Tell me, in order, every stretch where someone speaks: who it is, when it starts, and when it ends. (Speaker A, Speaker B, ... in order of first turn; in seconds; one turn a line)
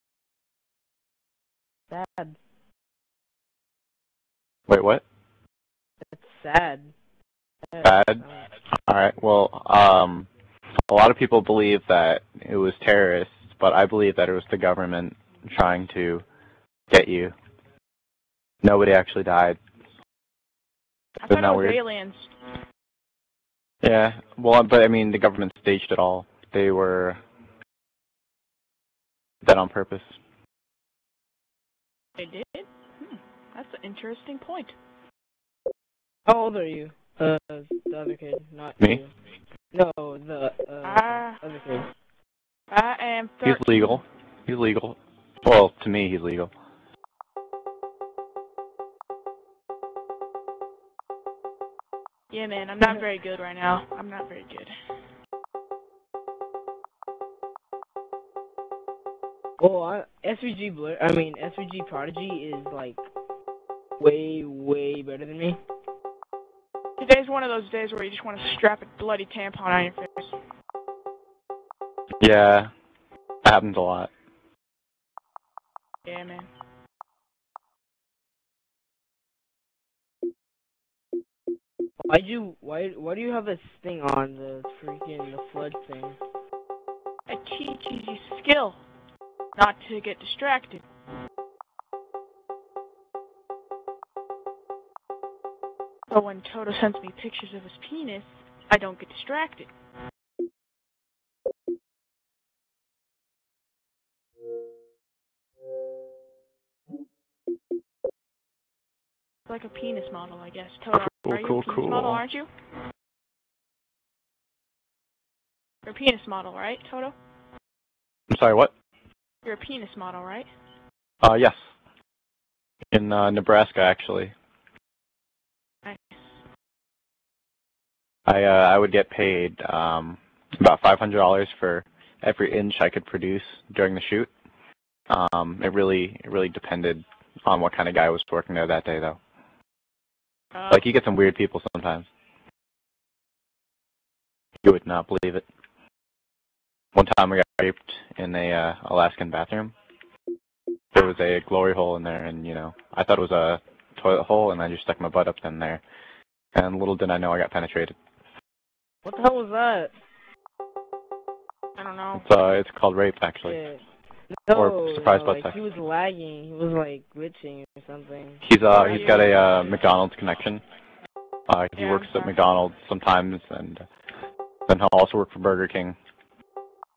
Speaker A: 1.9-2.4
Speaker B: 4.7-5.0
Speaker A: 6.1-6.9
Speaker A: 7.7-8.5
Speaker B: 7.8-8.2
Speaker B: 8.9-10.3
Speaker B: 10.9-16.2
Speaker B: 16.9-17.3
Speaker B: 18.6-19.6
Speaker C: 21.2-22.3
Speaker B: 21.3-21.8
Speaker B: 23.8-27.2
Speaker B: 29.4-30.1
Speaker C: 32.2-34.7
Speaker A: 36.2-39.1
Speaker A: 39.7-41.9
Speaker C: 40.8-41.4
Speaker C: 42.7-44.0
Speaker B: 43.4-46.5
Speaker C: 52.3-54.7
Speaker A: 59.6-63.0
Speaker A: 64.0-65.6
Speaker C: 67.0-70.3
Speaker B: 72.2-72.7
Speaker B: 73.4-74.1
Speaker C: 76.0-76.5
Speaker A: 82.1-86.2
Speaker C: 87.3-88.8
Speaker C: 89.5-90.8
Speaker C: 96.1-99.7
Speaker C: 109.5-112.5
Speaker B: 110.9-112.2
Speaker C: 115.8-117.1
Speaker B: 118.3-118.7
Speaker C: 119.4-120.5
Speaker B: 121.2-121.5
Speaker B: 122.9-124.3
Speaker C: 125.8-126.3
Speaker B: 128.3-134.3
Speaker B: 135.1-139.2
Speaker C: 140.5-140.9
Speaker B: 140.7-142.1
Speaker B: 144.6-145.4
Speaker B: 146.9-149.7
Speaker B: 150.9-155.8
Speaker B: 156.5-157.9
Speaker A: 159.0-159.9
Speaker C: 161.8-162.2
Speaker B: 162.2-163.6
Speaker A: 163.4-168.4
Speaker B: 164.5-165.6
Speaker B: 168.4-170.6
Speaker C: 168.7-169.8
Speaker B: 171.5-173.8
Speaker C: 171.8-172.3
Speaker B: 174.7-175.9